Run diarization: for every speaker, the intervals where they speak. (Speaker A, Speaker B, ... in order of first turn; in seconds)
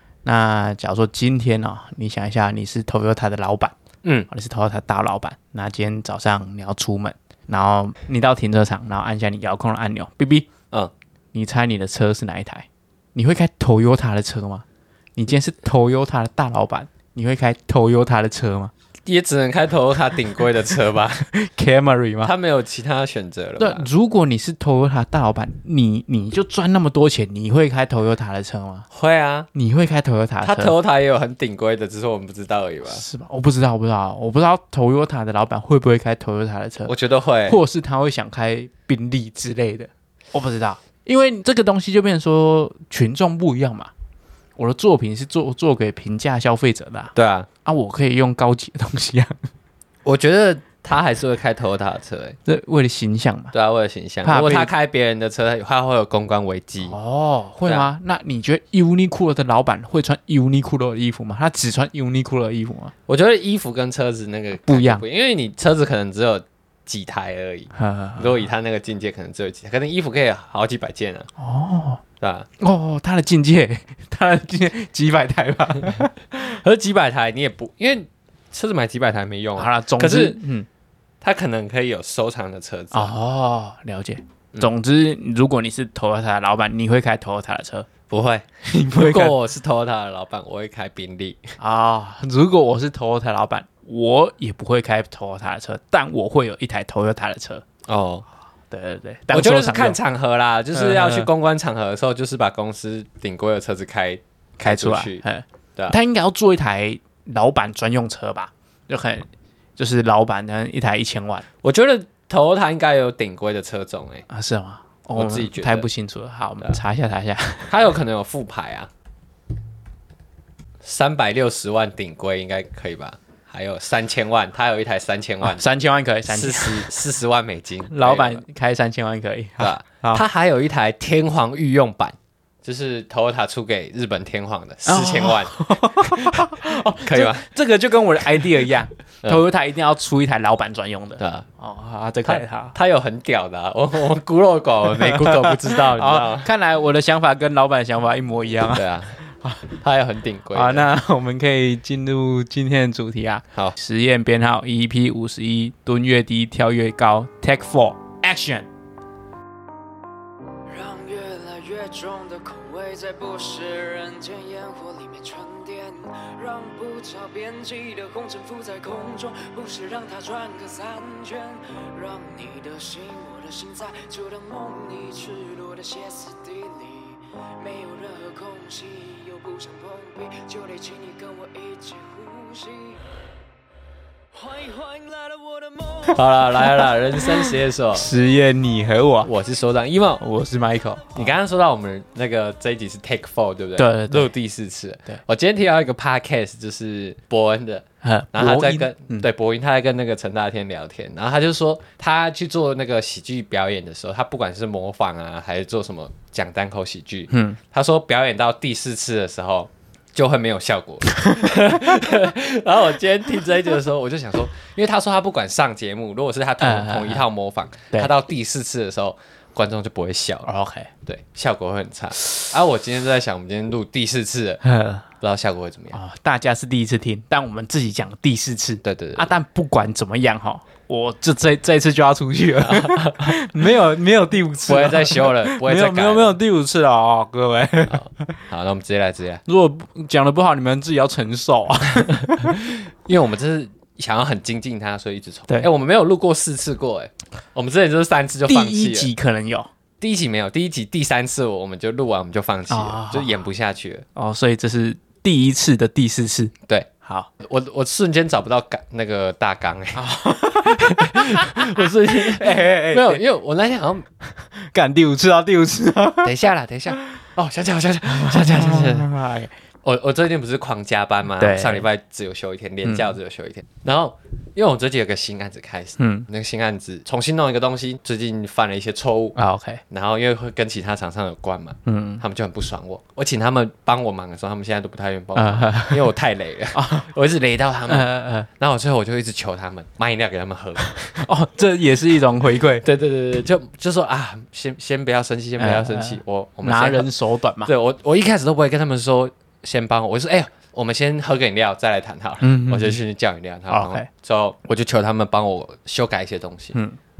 Speaker A: 0.2-3.7, 4.3-10.5, 11.3-14.6, 15.2-18.7, 21.3-22.3, 23.6-28.9, 29.5-30.7, 32.9-36.9, 37.5-43.9, 44.6-47.1, 47.6-49.4, 52.4-53.5, 54.2-54.7, 56.8-62.9, 64.6-65.0, 67.8-68.4, 71.4-72.0, 72.6-76.1, 79.6-80.7, 82.9-87.9, 88.7-89.4, 91.6-97.6, 98.7-100.0, 100.7-101.3, 104.6-109.2, 109.8-111.5, 114.3-117.7, 125.4-126.9, 127.9-130.2, 134.8-142.7, 145.2-149.6, 150.5-158.7, 187.9-189.3, 190.2-191.3, 193.8-194.3, 198.0-199.3, 207.3-207.6, 211.1-211.5, 216.6-217.2, 220.4-220.9, 224.6-225.1, 225.9-238.4, 239.4-242.6, 248.4-249.7, 252.7-253.3, 254.1-257.3, 259.9-263.2, 264.3-266.3, 268.1-269.5, 271.4-271.9, 272.8-273.1, 276.0-276.3, 279.4-279.8, 281.9-282.2, 285.3-286.1, 286.7-287.1, 287.9-288.5, 291.1-292.8, 295.6-297.7, 302.4-303.0, 303.7-304.1
Speaker B: 19.1-21.3, 22.2-23.9, 28.9-29.5, 30.4-33.0, 36.9-37.6, 47.1-47.5, 50.0-52.4, 53.5-57.0, 63.1-71.3, 72.2-72.5, 76.4-80.4, 81.2-83.1, 88.1-91.5, 97.9-98.2, 99.3-105.2, 111.6-114.2, 115.1-115.9, 117.7-118.9, 120.8-125.6, 126.3-128.4, 129.6-137.5, 141.2-141.4, 142.2-146.5, 148.7-149.2, 149.7-150.9, 186.1-188.1, 189.2-190.2, 191.1-220.5, 221.0-224.6, 225.2-225.9, 228.8-229.3, 232.6-233.3, 234.7-236.3, 237.9-239.4, 243.0-249.1, 250.0-254.1, 257.4-260.0, 260.6-264.1, 266.2-269.1, 269.8-279.4, 279.9-291.2, 292.8-297.1, 297.6-306.8
Speaker C: 160.7-183.0, 184.3-186.8